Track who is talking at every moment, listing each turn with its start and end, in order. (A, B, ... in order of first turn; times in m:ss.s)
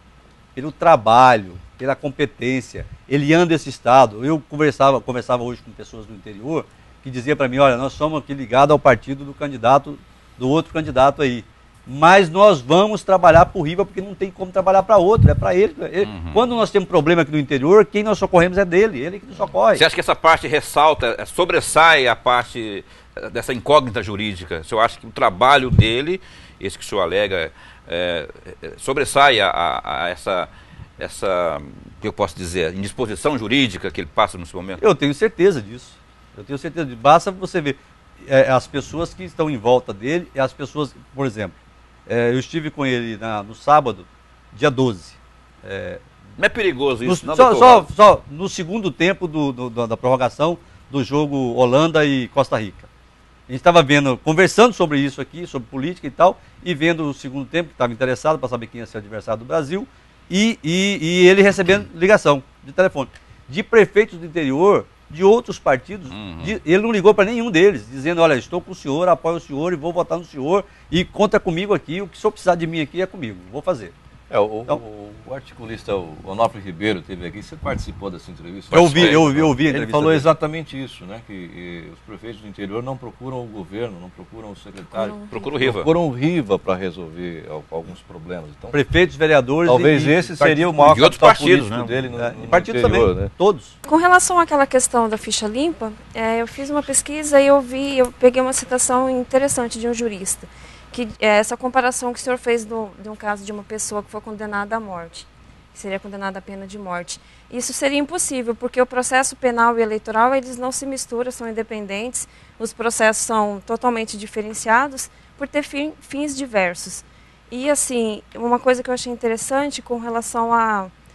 0:00.6-0:19.8 A
0:16.0-0:16.4 B
0:19.7-0:34.8 B
0:34.8-0:41.5 A
0:42.1-0:46.0 A
0:46.4-0:47.9 B
0:47.0-0:52.9 A
0:53.5-1:13.9 A
1:06.1-1:06.5 B
1:14.3-1:28.8 C
1:18.7-1:19.2 B
1:18.7-1:20.3 A
1:24.9-1:25.4 D
1:25.3-1:25.9 B
1:28.7-1:31.2 A
1:29.6-1:33.3 C
1:30.9-1:32.0 B
1:32.1-1:33.7 A
1:33.8-2:00.9 D